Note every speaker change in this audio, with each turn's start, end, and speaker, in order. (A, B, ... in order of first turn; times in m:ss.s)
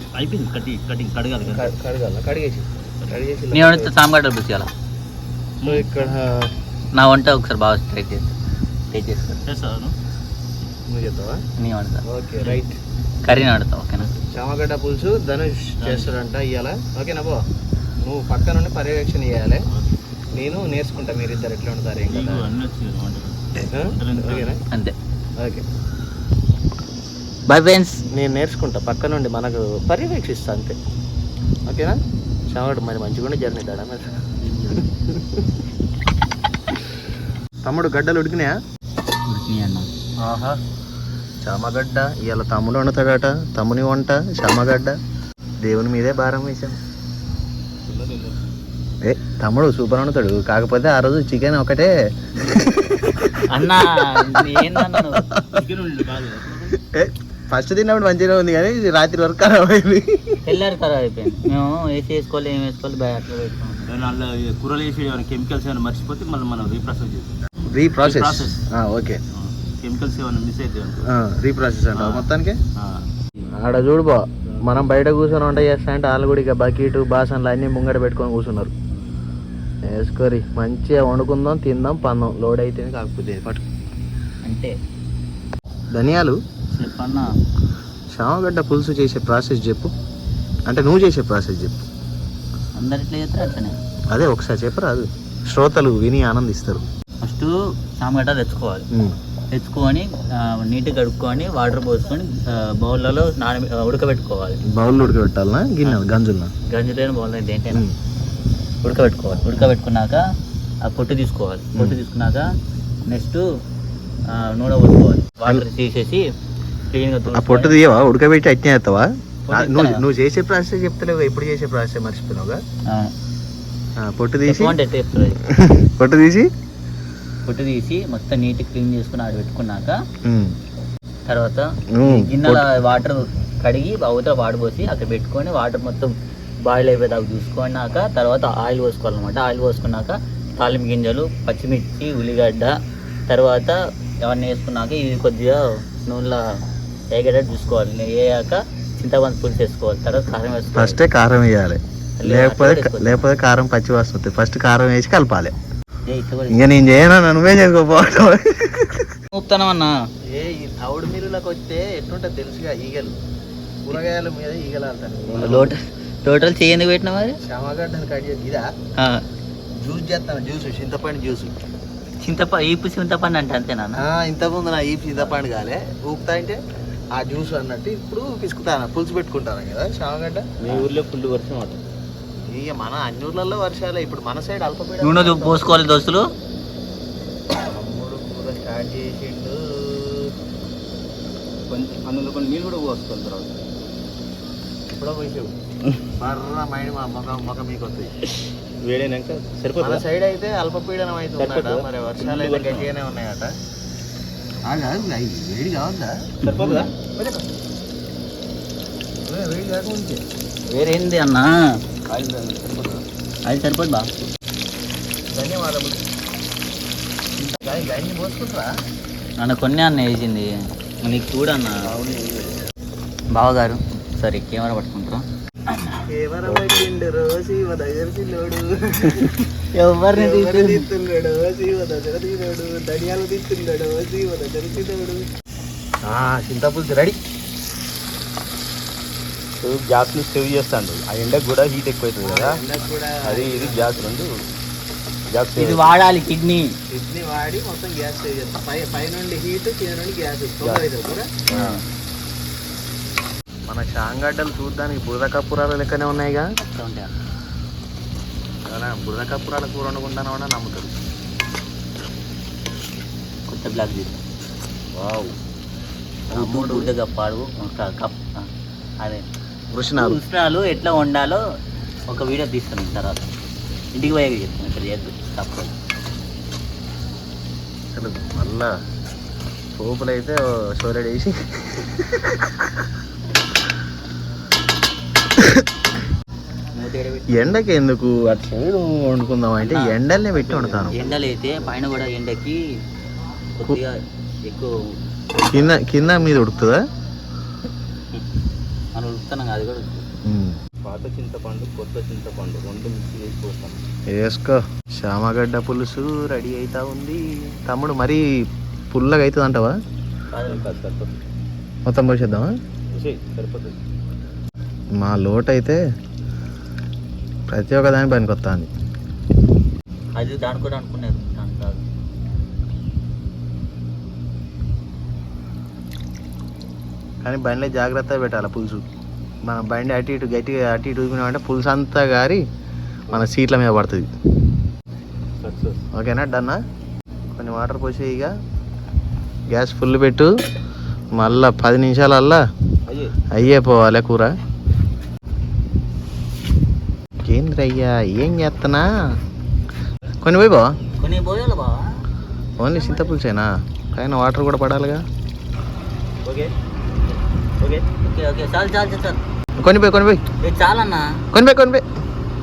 0:00.1-0:01.7 A
0:01.5-0:03.9 B
0:03.5-0:04.7 C
0:05.6-0:05.9 A
0:05.6-0:06.5 B
0:06.9-0:08.3 C
0:08.9-0:09.4 C
0:09.4-0:09.9 A
0:10.9-0:11.4 B
0:11.6-0:12.0 C
0:12.0-0:12.8 B
0:13.3-0:14.1 C
0:14.2-0:17.4 B
0:15.8-0:16.2 A
0:18.0-0:19.6 B
0:20.4-0:22.5 B
0:22.1-0:24.5 A
0:23.6-0:24.6 B
0:25.4-0:25.6 B
0:27.5-0:28.0 C
0:28.1-0:30.8 B
0:31.7-0:32.0 B
0:32.5-0:35.5 B
0:37.6-0:38.6 B
0:39.3-0:39.9 C
0:40.2-0:40.6 B
0:41.4-0:45.0 B
0:45.6-0:46.8 B
0:47.9-0:48.4 A
0:49.0-0:51.9 B
0:52.4-0:52.6 A
0:52.5-0:55.6 B
0:53.5-0:55.3 C
0:55.5-0:56.8 A
0:56.8-1:00.5 B
1:00.5-1:03.9 C
1:03.9-1:07.3 A
1:07.7-1:09.2 B
1:08.0-1:08.6 A
1:09.3-1:11.1 A
1:11.0-1:12.6 B
1:11.9-1:13.4 A
1:13.6-1:18.7 B
1:18.9-1:19.2 A
1:19.9-1:23.6 B
1:24.4-1:24.7 C
1:25.9-1:26.4 B
1:26.7-1:27.3 C
1:28.1-1:29.9 B
1:30.7-1:31.8 B
1:32.8-1:33.8 C
1:34.1-1:36.8 B
1:37.2-1:38.9 C
1:39.5-1:44.6 C
1:44.7-1:46.5 B
1:46.7-1:47.9 C
1:48.8-1:50.2 C
1:50.8-1:52.5 C
1:53.1-1:53.5 C
1:54.3-1:56.2 C
1:56.9-1:57.8 C
1:57.3-2:02.6 B
1:59.5-2:00.0 C
2:02.9-2:03.1 C
2:04.0-2:04.8 B
2:04.5-2:05.4 C
2:05.5-2:06.5 B
2:07.5-2:10.0 C
2:10.2-2:10.6 B
2:11.3-2:22.8 C
2:11.9-2:12.7 B
2:23.3-2:26.6 C
2:27.1-2:31.0 C
2:30.8-2:35.5 B
2:32.2-2:33.2 C
2:36.1-2:36.7 C
2:36.5-2:39.2 B
2:39.3-2:39.9 C
2:40.3-2:43.2 B
2:43.9-2:45.7 B
2:45.3-2:47.4 C
2:47.4-2:48.7 B
2:49.0-2:49.2 C
2:49.8-2:51.5 B
2:52.2-2:54.0 C
2:54.0-2:56.6 B
2:57.2-3:00.5 B
3:00.6-3:01.8 A
3:02.5-3:05.7 B
3:05.0-3:06.2 C
3:07.6-3:10.3 B
3:11.7-3:13.7 A
3:15.0-3:15.5 B
3:16.2-3:18.1 B
3:18.8-3:20.0 A
3:19.8-3:23.5 B
3:21.4-3:22.9 A
3:24.7-3:26.1 B
3:26.4-3:26.9 A
3:26.4-3:26.9 C
3:27.2-3:27.4 B
3:29.2-3:30.2 B
3:30.7-3:31.5 C
3:32.1-3:33.0 A
3:33.5-3:34.1 C
3:35.3-3:36.0 B
3:37.6-3:38.7 B
3:39.4-3:40.5 C
3:41.0-3:41.9 C
3:41.8-3:42.6 A
3:43.3-3:46.0 C
3:46.1-3:49.4 B
3:49.7-3:50.9 C
3:50.1-3:55.3 B
3:56.1-3:57.2 B
3:59.6-4:02.6 A
4:02.2-4:04.1 B
4:03.2-4:04.4 A
4:05.3-4:05.9 A
4:05.6-4:06.7 C
4:06.9-4:11.8 B
4:10.6-4:10.9 A
4:11.5-4:11.8 C
4:13.7-4:16.5 B
4:16.6-4:17.1 C
4:18.7-4:20.9 B
4:23.5-4:24.2 C
4:25.0-4:25.3 B
4:26.3-4:26.9 B
4:26.3-4:28.5 C
4:29.7-4:30.2 B
4:30.0-4:31.4 C
4:32.1-4:33.3 C
4:34.0-4:35.7 C
4:38.0-4:38.7 B
4:39.8-4:42.6 B
4:45.4-4:45.6 B
4:46.8-4:47.5 C
4:47.3-4:51.0 B
4:49.6-4:49.9 C
4:50.3-4:51.8 A
4:51.0-4:52.6 C
4:53.6-4:54.8 C
4:55.4-4:55.8 C
4:55.5-4:56.8 B
4:58.9-5:00.0 C
5:00.3-5:00.6 B
5:00.8-5:03.8 A
5:04.1-5:08.2 B
5:08.9-5:09.7 B
5:10.3-5:10.7 C
5:10.4-5:11.2 A
5:11.9-5:12.5 B
5:12.9-5:13.8 A
5:15.0-5:15.8 B
5:17.5-5:18.7 B
5:20.2-5:21.8 C
5:27.2-5:28.8 B
5:29.5-5:32.4 B
5:33.1-5:34.1 B
5:35.4-5:35.8 A
5:35.9-5:36.6 B
5:37.4-5:38.3 B
5:39.5-5:40.3 B
5:41.1-5:42.4 B
5:42.9-5:43.1 A
5:43.3-5:44.4 B
5:47.2-5:48.9 B
5:50.2-5:50.7 B
5:51.0-5:51.8 C
5:52.6-5:55.0 B
5:56.2-5:56.5 A
5:57.6-5:57.8 A
5:58.0-5:59.2 C
5:59.6-6:00.2 B
6:00.4-6:01.1 C
6:01.3-6:01.8 B